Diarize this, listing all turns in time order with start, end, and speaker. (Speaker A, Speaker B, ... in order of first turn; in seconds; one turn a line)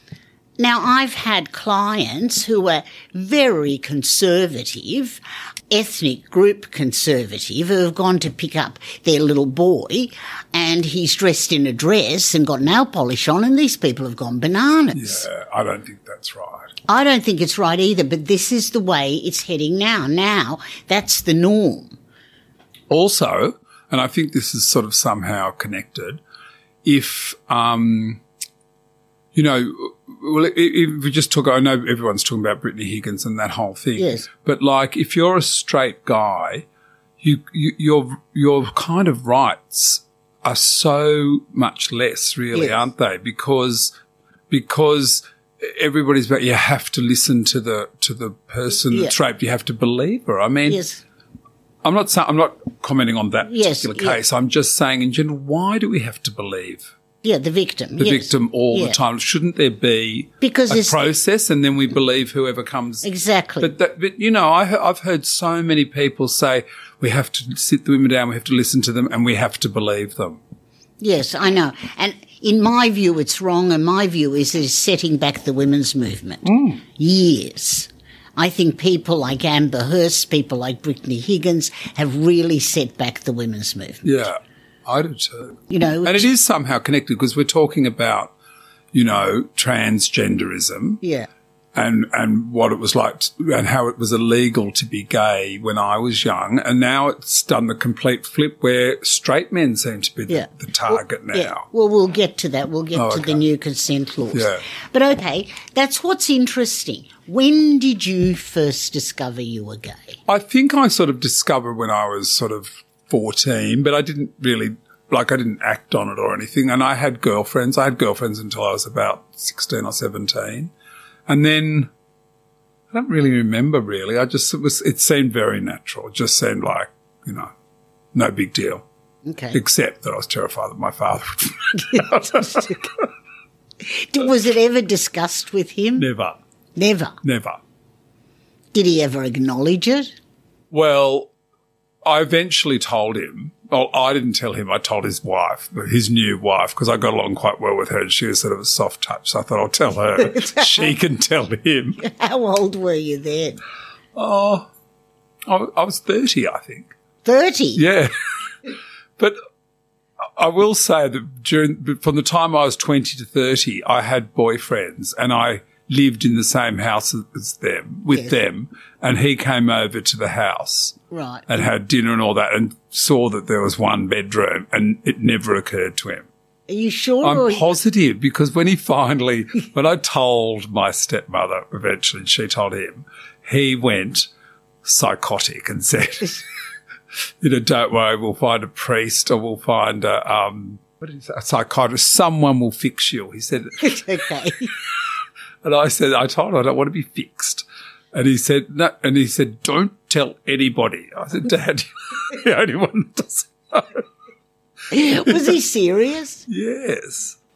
Speaker A: 0.6-15.2
Speaker B: 14.9-16.7
Speaker A: 16.9-22.0
Speaker B: 22.9-26.2
Speaker B: 26.8-28.2
Speaker B: 29.3-36.6
Speaker A: 34.0-34.3
Speaker B: 37.2-43.9
Speaker A: 42.5-42.8
Speaker B: 44.5-50.8
Speaker A: 50.7-51.0
Speaker B: 51.8-56.9
Speaker A: 53.5-54.2
Speaker A: 57.2-59.0
Speaker B: 58.0-63.0
Speaker A: 60.4-61.0
Speaker A: 63.0-63.7
Speaker B: 63.6-70.4
Speaker A: 71.0-84.1
Speaker B: 76.4-76.8
Speaker B: 84.0-88.3
Speaker A: 85.7-86.3
Speaker B: 88.9-91.0
Speaker A: 91.0-91.3
Speaker B: 91.7-101.7
Speaker A: 100.3-110.2
Speaker B: 102.9-103.4
Speaker B: 104.3-104.6
Speaker B: 110.3-120.7
Speaker B: 121.3-121.9
Speaker B: 122.9-127.5
Speaker B: 128.1-128.8
Speaker A: 129.2-129.6
Speaker B: 129.5-132.8
Speaker A: 131.8-132.9
Speaker A: 133.8-136.1
Speaker B: 136.0-136.4
Speaker A: 136.8-137.2
Speaker B: 137.2-137.6
Speaker A: 138.7-140.1
Speaker B: 140.7-141.3
Speaker B: 142.0-152.0
Speaker A: 150.2-150.9
Speaker A: 152.0-153.6
Speaker B: 154.1-154.7
Speaker B: 155.4-156.9
Speaker A: 157.2-157.8
Speaker B: 157.8-158.1
Speaker B: 158.7-159.4
Speaker B: 160.3-176.3
Speaker A: 171.1-171.5
Speaker A: 176.7-177.7
Speaker B: 177.2-184.3
Speaker B: 184.8-186.4
Speaker B: 187.4-194.0
Speaker A: 193.8-194.7
Speaker B: 195.6-204.1
Speaker A: 204.9-206.4
Speaker B: 205.2-205.5
Speaker B: 206.5-207.4